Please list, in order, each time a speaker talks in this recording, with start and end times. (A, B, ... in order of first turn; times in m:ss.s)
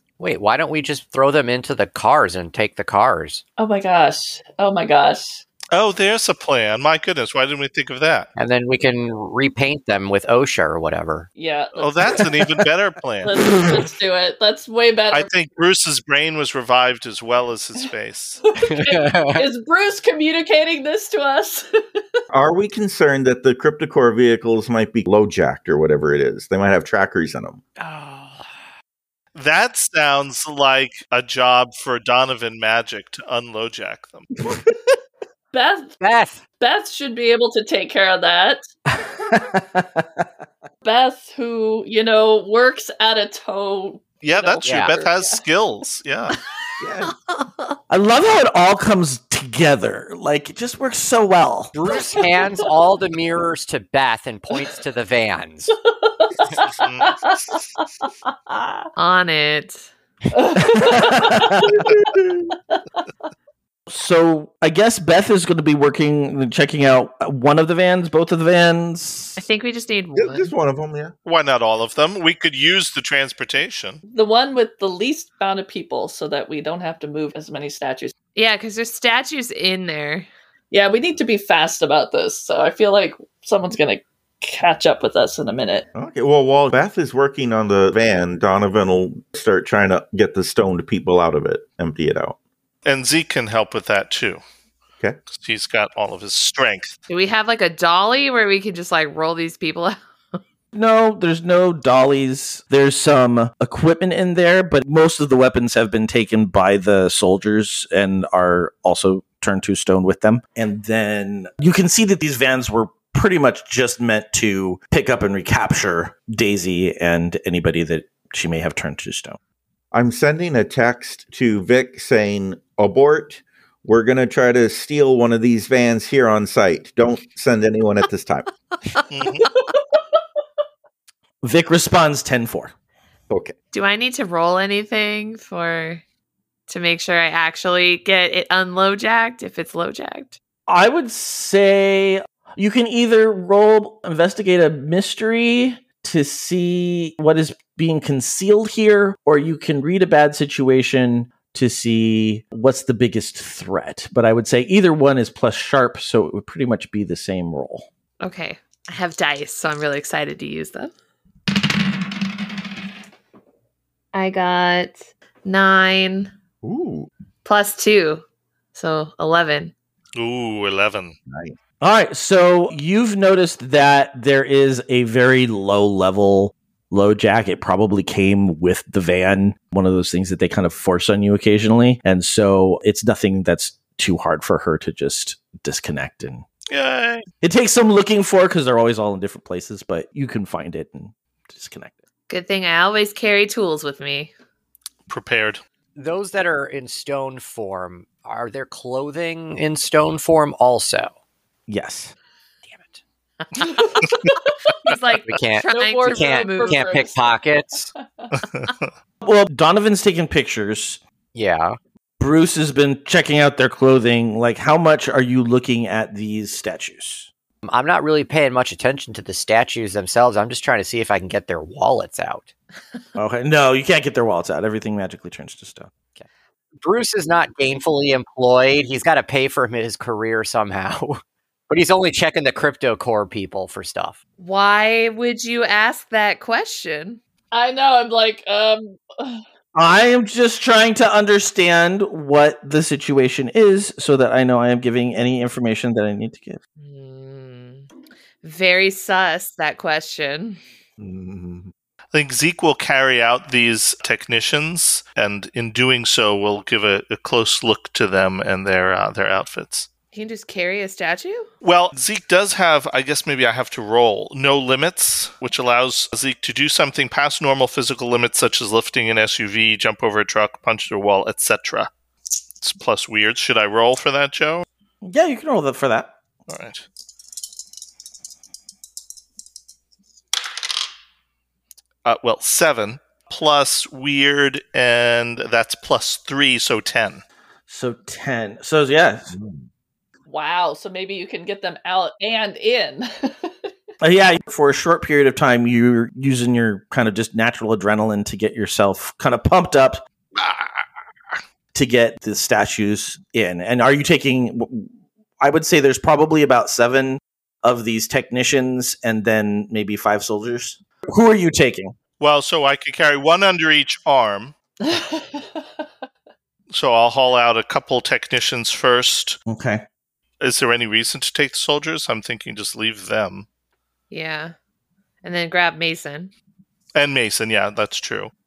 0:00.2-0:03.4 A
0:03.6-0:05.4 B
0:05.7-0:08.3 C
0:08.4-0:11.3 A
0:11.4-0:12.2 B
0:11.8-0:13.3 C
0:13.2-0:15.3 B
0:15.1-0:18.4 C
0:18.5-0:22.2 B
0:18.6-0:19.4 A
0:22.3-0:27.6 D
0:27.8-0:28.4 A
0:29.3-0:34.3 C
0:35.5-0:36.0 B
0:36.0-0:36.4 A
0:36.6-0:38.6 B
0:38.9-0:40.0 E
0:40.8-0:45.4 B
0:44.2-0:46.4 C
0:46.8-0:47.1 D
0:47.9-0:51.7 E
0:51.7-0:55.7 A
0:52.0-0:52.5 B
0:55.9-0:58.8 B
0:56.6-0:57.2 C
0:59.0-0:59.9 F
1:00.3-1:01.6 B
1:00.6-1:01.6 E
1:01.7-1:02.5 D
1:03.9-1:09.4 E
1:09.4-1:10.5 F
1:10.1-1:11.1 D
1:11.2-1:14.0 C
1:14.1-1:18.1 B
1:18.4-1:20.3 F
1:20.7-1:25.8 B
1:25.9-1:32.4 D
1:32.8-1:34.4 C
1:35.3-1:37.0 C
1:37.1-1:40.0 F
1:40.7-1:59.4 E
1:59.9-2:08.5 D
2:09.1-2:09.5 C
2:11.4-2:12.7 E
2:13.3-2:13.6 D
2:13.7-2:16.0 F
2:16.7-2:20.4 F
2:20.7-2:37.9 E
2:38.2-2:40.9 F
2:44.1-2:46.3 F
2:46.6-2:47.1 D
2:47.4-2:49.7 F
2:50.2-2:51.1 C
2:51.3-2:51.6 D
2:51.8-3:06.4 E
3:06.7-3:07.2 C
3:07.4-3:12.0 E
3:12.3-3:14.3 F
3:15.1-3:15.6 C
3:16.0-3:21.1 A
3:21.7-3:22.1 E
3:22.6-3:23.0 A
3:23.6-3:24.0 F
3:23.6-3:24.5 B
3:24.8-3:27.1 F
3:25.2-3:27.9 A
3:25.6-3:27.4 B
3:29.2-3:31.0 E
3:31.3-3:31.8 A
3:32.2-3:37.3 E
3:37.6-3:42.5 A
3:43.2-3:45.9 E
3:46.8-3:54.2 A
3:54.4-3:57.2 F
3:57.5-3:59.4 B
3:59.7-4:06.6 E
4:06.8-4:07.9 F
4:08.4-4:10.6 F
4:11.0-4:11.7 D
4:12.1-4:19.9 C
4:20.1-4:21.5 F
4:21.6-4:31.9 C
4:32.6-4:34.6 C
4:35.0-4:36.1 E
4:36.5-4:36.8 C
4:42.0-4:47.2 C
4:47.7-4:49.3 E
4:49.3-4:49.6 D
4:50.3-4:53.7 B
4:54.0-5:00.0 E
5:01.7-5:12.0 E
5:12.2-5:14.5 C
5:14.8-5:15.6 B
5:16.7-5:19.4 C
5:19.5-5:19.8 E
5:20.4-5:23.5 C
5:24.1-5:24.5 F
5:25.2-5:26.3 F
5:26.9-5:28.3 C